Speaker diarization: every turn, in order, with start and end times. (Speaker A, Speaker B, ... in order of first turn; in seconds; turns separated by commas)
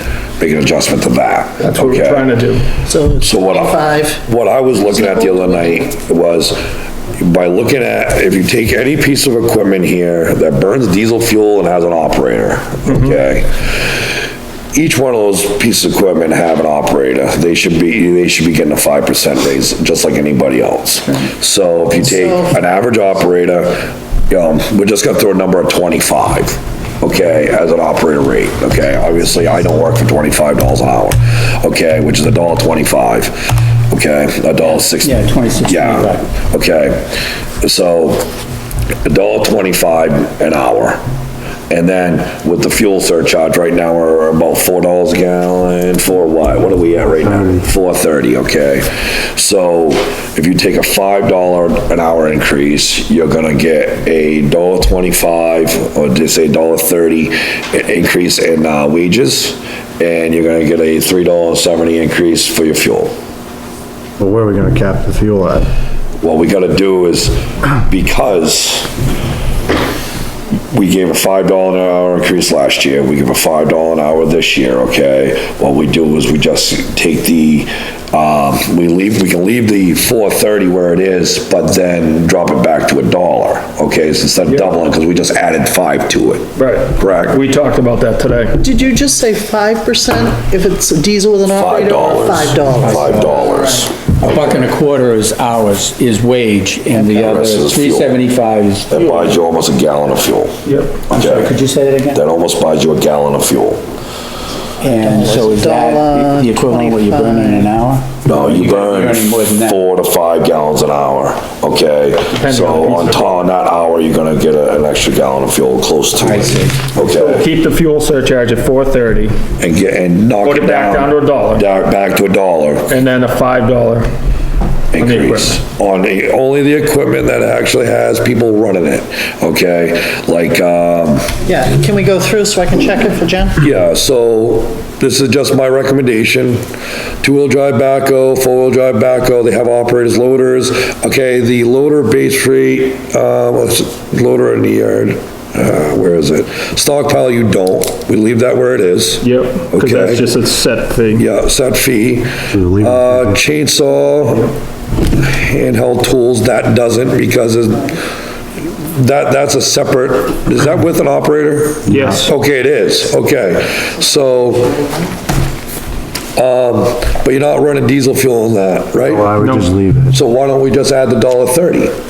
Speaker A: 0.4-2.3, Speaker B: 1.6-2.7, Speaker C: 2.9-4.2, Speaker A: 3.2-6.6, Speaker C: 4.9-5.8, Speaker A: 7.2-14.0, Speaker A: 14.7-38.3, Speaker C: 22.1-22.6, Speaker D: 34.6-36.3, Speaker A: 39.0-41.0, Speaker A: 41.7-63.1, Speaker E: 47.2-47.7, Speaker E: 64.2-65.7, Speaker A: 66.2-68.9, Speaker A: 70.7-87.4, Speaker B: 84.5-84.7, Speaker B: 86.6-88.6, Speaker C: 88.6-93.9, Speaker A: 91.5-94.6, Speaker D: 92.8-99.4, Speaker A: 96.9-98.2, Speaker A: 98.9-101.6, Speaker B: 100.7-101.0, Speaker D: 101.1-102.2, Speaker A: 102.1-103.8, Speaker D: 104.8-109.8, Speaker C: 104.8-107.7, Speaker A: 108.2-117.5, Speaker B: 112.3-113.5, Speaker D: 116.2-116.7, Speaker B: 117.0-119.4, Speaker A: 119.6-123.0, Speaker B: 120.4-121.7, Speaker B: 122.9-124.1, Speaker A: 124.9-131.4, Speaker B: 125.0-125.6, Speaker C: 131.4-133.6, Speaker A: 133.6-136.6, Speaker A: 137.2-150.4, Speaker B: 149.2-151.3, Speaker A: 151.1-154.6, Speaker E: 152.5-153.4, Speaker A: 155.1-158.0, Speaker A: 158.7-164.9, Speaker B: 161.9-162.3, Speaker E: 161.9-162.2, Speaker A: 166.4-169.4, Speaker E: 169.0-170.2, Speaker B: 169.4-169.7, Speaker A: 170.1-171.9